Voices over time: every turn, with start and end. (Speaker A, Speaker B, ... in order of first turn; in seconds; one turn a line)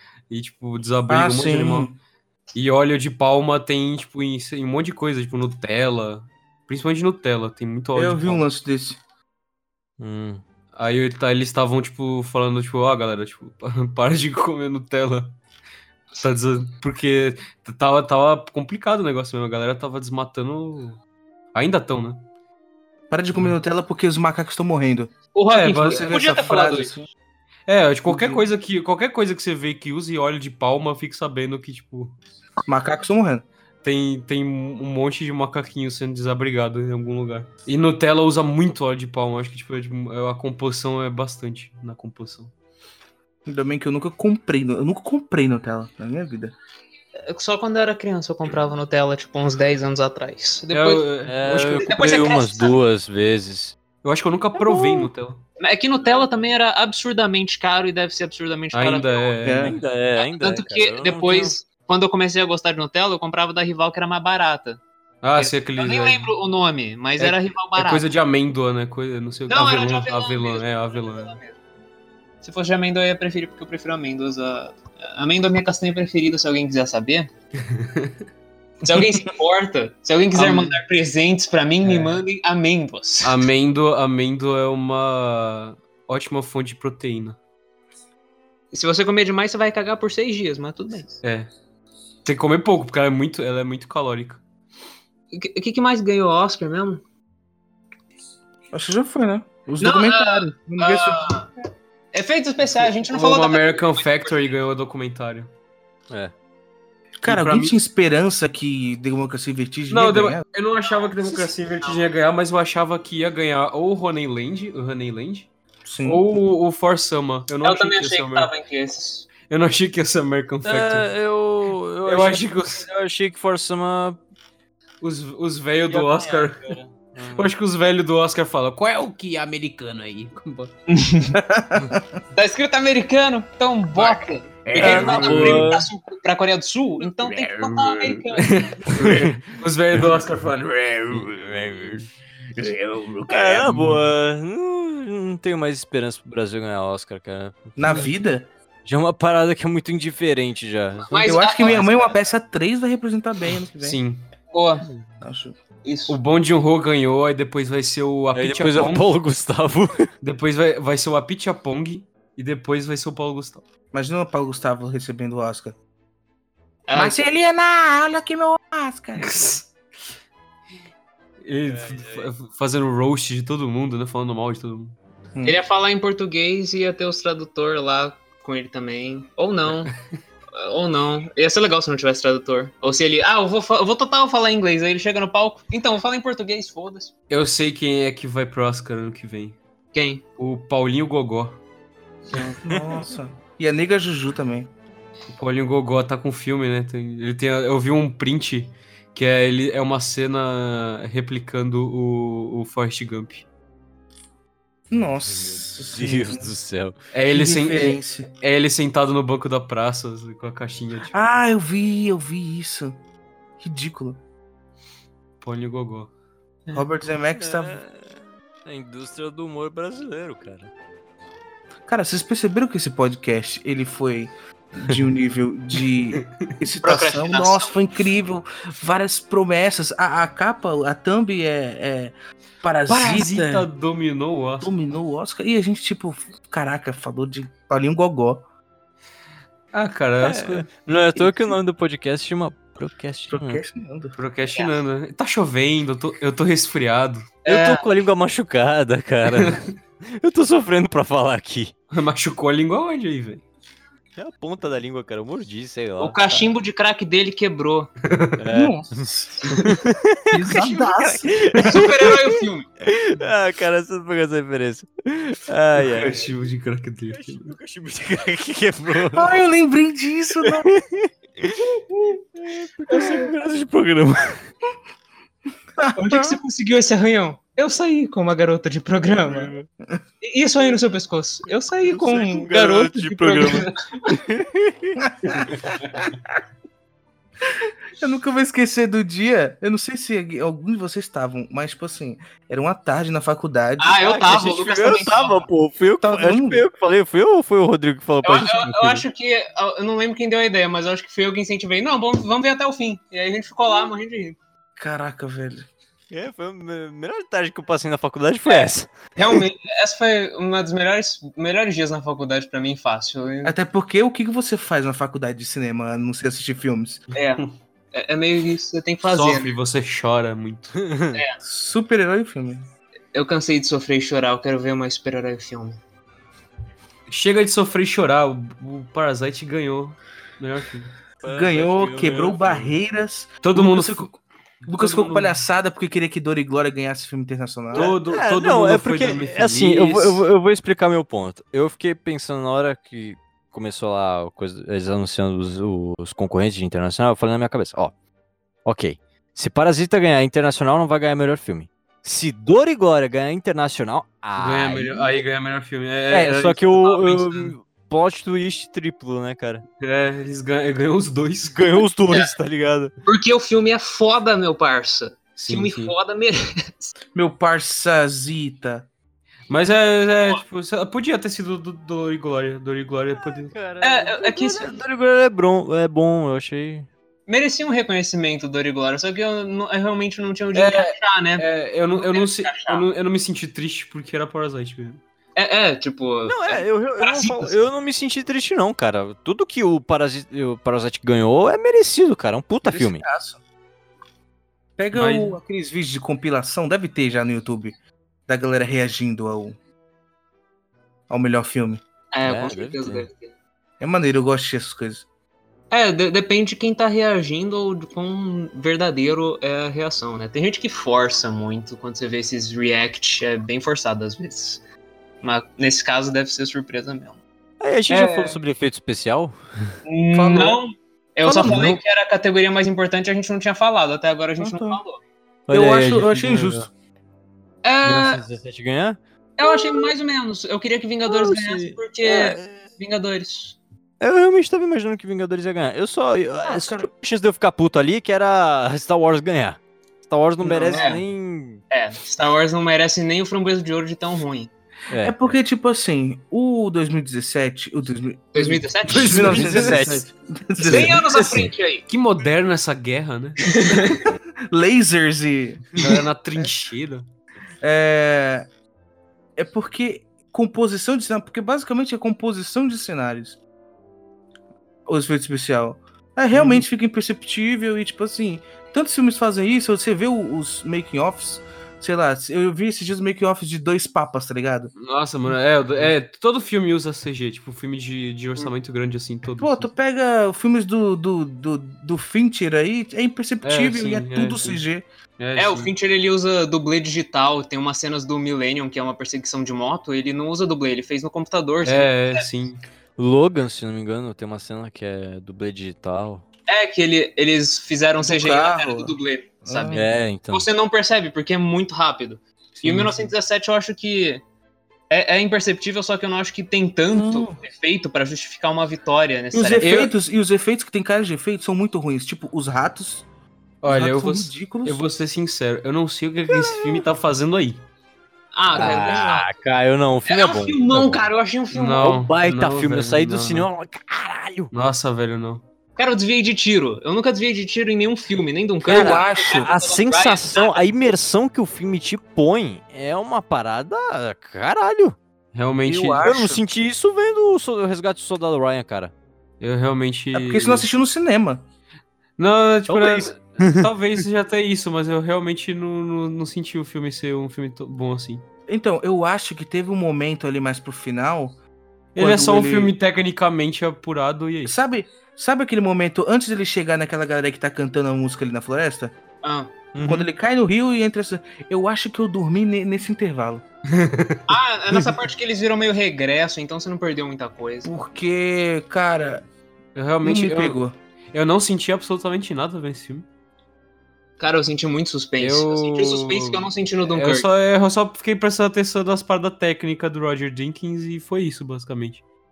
Speaker A: 0.3-1.9
Speaker B: 1.1-2.0
Speaker A: 2.5-8.4
Speaker B: 7.9-9.0
Speaker C: 10.0-10.4
Speaker A: 10.7-15.4
Speaker A: 16.2-21.0
Speaker A: 21.5-22.2
Speaker B: 23.1-25.1
Speaker D: 25.3-26.9
Speaker A: 25.5-26.1
Speaker B: 25.8-27.1
Speaker A: 27.7-32.2
Speaker B: 28.1-28.5
Speaker B: 32.6-33.4
Speaker A: 33.8-42.5
Speaker B: 43.5-46.5
Speaker D: 47.2-51.0
Speaker A: 50.7-52.0
Speaker C: 51.2-53.7
Speaker D: 51.8-52.8
Speaker A: 54.0-55.4
Speaker C: 54.6-55.1
Speaker D: 55.6-59.3
Speaker A: 58.7-59.8
Speaker B: 59.4-59.7
Speaker C: 59.6-61.5
Speaker D: 60.2-64.8
Speaker A: 65.2-66.3
Speaker D: 65.4-68.0
Speaker A: 67.2-71.4
Speaker D: 69.5-71.6
Speaker D: 72.4-77.3
Speaker A: 77.6-78.1
Speaker D: 78.8-83.4
Speaker A: 80.3-80.8
Speaker A: 81.8-82.2
Speaker A: 83.2-87.4
Speaker D: 88.7-91.2
Speaker A: 91.2-91.5
Speaker A: 92.2-94.4
Speaker D: 95.3-97.0
Speaker B: 98.7-101.3
Speaker D: 99.8-101.5
Speaker D: 102.1-104.5
Speaker A: 102.8-105.5
Speaker B: 107.2-110.4
Speaker A: 107.2-107.8
Speaker A: 109.9-115.5
Speaker D: 110.9-112.0
Speaker B: 115.8-116.2
Speaker A: 116.0-118.5
Speaker D: 117.6-119.3
Speaker A: 119.5-121.1
Speaker C: 120.6-124.2
Speaker A: 122.0-122.8
Speaker A: 125.0-126.8
Speaker C: 125.9-127.5
Speaker A: 127.3-130.7
Speaker D: 130.9-131.4
Speaker B: 131.5-132.2
Speaker D: 132.3-138.8
Speaker A: 133.9-134.2
Speaker C: 134.7-135.9
Speaker A: 134.8-135.7
Speaker A: 137.7-141.3
Speaker C: 138.9-139.3
Speaker C: 141.1-142.1
Speaker C: 143.3-148.1
Speaker A: 143.7-144.0
Speaker B: 147.8-148.5
Speaker C: 148.8-151.1
Speaker D: 151.1-152.1
Speaker B: 151.1-154.0
Speaker A: 153.8-154.2
Speaker D: 154.5-154.8
Speaker B: 155.2-155.6
Speaker D: 155.8-156.2
Speaker A: 156.1-159.1
Speaker C: 158.3-160.1
Speaker A: 160.2-163.6
Speaker B: 163.9-165.8
Speaker D: 166.9-167.2
Speaker B: 166.9-169.6
Speaker A: 169.2-169.7
Speaker A: 171.4-174.9
Speaker C: 171.7-172.3
Speaker D: 175.4-179.9
Speaker D: 180.5-187.1
Speaker A: 187.3-189.6
Speaker D: 189.9-190.2
Speaker A: 190.4-191.6
Speaker B: 192.3-194.7
Speaker A: 195.3-203.4
Speaker B: 204.9-206.5
Speaker C: 205.2-206.9
Speaker A: 207.1-211.1
Speaker B: 207.3-208.3
Speaker B: 211.1-213.0
Speaker B: 213.6-214.2
Speaker A: 215.4-216.1
Speaker B: 216.7-217.8
Speaker C: 217.4-220.7
Speaker B: 221.9-233.7
Speaker D: 226.8-227.7
Speaker A: 232.9-234.7
Speaker B: 234.6-238.4
Speaker A: 239.7-240.7
Speaker C: 240.2-243.6
Speaker B: 243.3-244.2
Speaker A: 244.2-247.3
Speaker D: 247.4-247.8
Speaker C: 247.4-251.7
Speaker A: 251.9-253.4
Speaker C: 254.2-256.5
Speaker D: 256.0-257.9
Speaker A: 258.1-258.3
Speaker C: 258.4-262.3
Speaker B: 258.5-259.4
Speaker B: 260.3-261.6
Speaker D: 261.6-262.7
Speaker C: 262.8-266.3
Speaker A: 265.8-267.5
Speaker C: 267.1-269.3
Speaker B: 269.1-270.7
Speaker C: 270.4-274.4
Speaker B: 275.8-276.4
Speaker D: 275.9-279.5
Speaker D: 280.2-283.8
Speaker C: 281.9-285.0
Speaker B: 285.0-285.5
Speaker B: 287.5-294.1
Speaker D: 293.8-295.5
Speaker C: 294.0-299.1
Speaker B: 296.0-296.6
Speaker D: 298.2-304.4
Speaker B: 304.8-305.7
Speaker C: 306.1-308.9
Speaker D: 308.5-313.5
Speaker B: 313.4-317.0
Speaker D: 317.1-319.5
Speaker A: 319.0-320.8
Speaker C: 320.8-321.2
Speaker B: 321.4-322.6
Speaker D: 323.1-325.8
Speaker A: 327.1-330.9
Speaker C: 331.2-332.7
Speaker B: 331.2-334.1
Speaker A: 333.4-335.4
Speaker B: 334.6-337.9
Speaker C: 337.7-347.9
Speaker A: 337.7-340.2
Speaker C: 348.6-355.1
Speaker A: 354.4-357.5
Speaker C: 356.1-359.6
Speaker A: 359.8-361.7
Speaker C: 361.5-362.9
Speaker D: 363.0-366.9
Speaker A: 365.4-365.9
Speaker B: 367.1-368.9
Speaker A: 369.5-373.5
Speaker C: 373.2-376.9
Speaker D: 373.8-374.8
Speaker D: 377.3-382.8
Speaker A: 380.5-385.0
Speaker D: 385.4-387.6
Speaker C: 386.3-393.0
Speaker B: 392.6-393.4
Speaker B: 394.8-397.8
Speaker A: 394.9-395.4
Speaker B: 398.3-399.6
Speaker B: 401.1-401.8
Speaker D: 402.1-403.3
Speaker C: 402.2-403.1
Speaker B: 403.8-405.1
Speaker D: 405.7-414.6
Speaker D: 415.2-417.2
Speaker C: 417.6-419.8
Speaker D: 417.9-418.4
Speaker D: 419.8-425.0
Speaker B: 420.1-420.6
Speaker C: 421.2-421.8
Speaker B: 421.3-421.7
Speaker B: 424.4-424.8
Speaker C: 425.5-426.7
Speaker B: 425.5-426.7
Speaker D: 427.6-428.2
Speaker C: 427.8-429.9
Speaker D: 429.4-433.6
Speaker C: 431.1-432.6
Speaker C: 434.0-441.6
Speaker B: 436.4-436.9
Speaker B: 440.4-440.9
Speaker D: 440.7-441.0
Speaker D: 441.7-444.5
Speaker C: 444.9-445.3
Speaker B: 445.0-451.4
Speaker D: 448.3-449.8
Speaker C: 448.9-450.0
Speaker D: 450.6-451.8
Speaker C: 450.6-451.2
Speaker A: 451.9-453.6
Speaker D: 453.6-454.0
Speaker B: 454.5-455.8
Speaker A: 455.8-457.0
Speaker B: 457.6-458.5
Speaker B: 459.4-463.4
Speaker B: 464.9-474.7
Speaker A: 466.3-466.6
Speaker A: 474.8-479.7
Speaker B: 479.4-484.9
Speaker A: 483.4-484.6
Speaker A: 485.2-485.7
Speaker D: 485.4-492.2
Speaker A: 491.6-492.6
Speaker C: 493.0-496.2
Speaker D: 496.5-499.8
Speaker B: 498.0-499.9
Speaker C: 499.7-500.5
Speaker D: 500.3-504.2
Speaker A: 502.6-503.1
Speaker D: 504.9-509.9
Speaker B: 506.9-507.4
Speaker B: 509.3-513.0
Speaker A: 509.6-509.9
Speaker A: 513.6-517.6
Speaker B: 513.6-514.8
Speaker C: 516.3-516.8
Speaker D: 518.3-519.3
Speaker C: 518.5-521.0
Speaker D: 520.0-522.0
Speaker A: 521.5-523.5
Speaker C: 521.8-524.5
Speaker A: 524.5-525.4
Speaker D: 525.8-530.6
Speaker B: 528.6-529.5
Speaker C: 528.7-535.0
Speaker A: 535.3-536.1
Speaker B: 535.6-536.4
Speaker C: 536.0-538.9
Speaker A: 539.4-540.7
Speaker B: 540.1-541.4
Speaker A: 542.2-548.2
Speaker C: 542.7-543.7
Speaker B: 548.5-551.4
Speaker A: 551.9-554.5
Speaker B: 552.0-552.7
Speaker B: 554.4-558.9
Speaker D: 559.2-559.5
Speaker C: 559.7-560.1
Speaker B: 559.8-563.4
Speaker A: 563.7-564.2
Speaker D: 564.3-567.7
Speaker B: 567.6-569.3
Speaker A: 569.7-570.6
Speaker B: 570.0-570.7
Speaker A: 571.1-573.0
Speaker D: 574.2-577.2
Speaker A: 575.2-582.0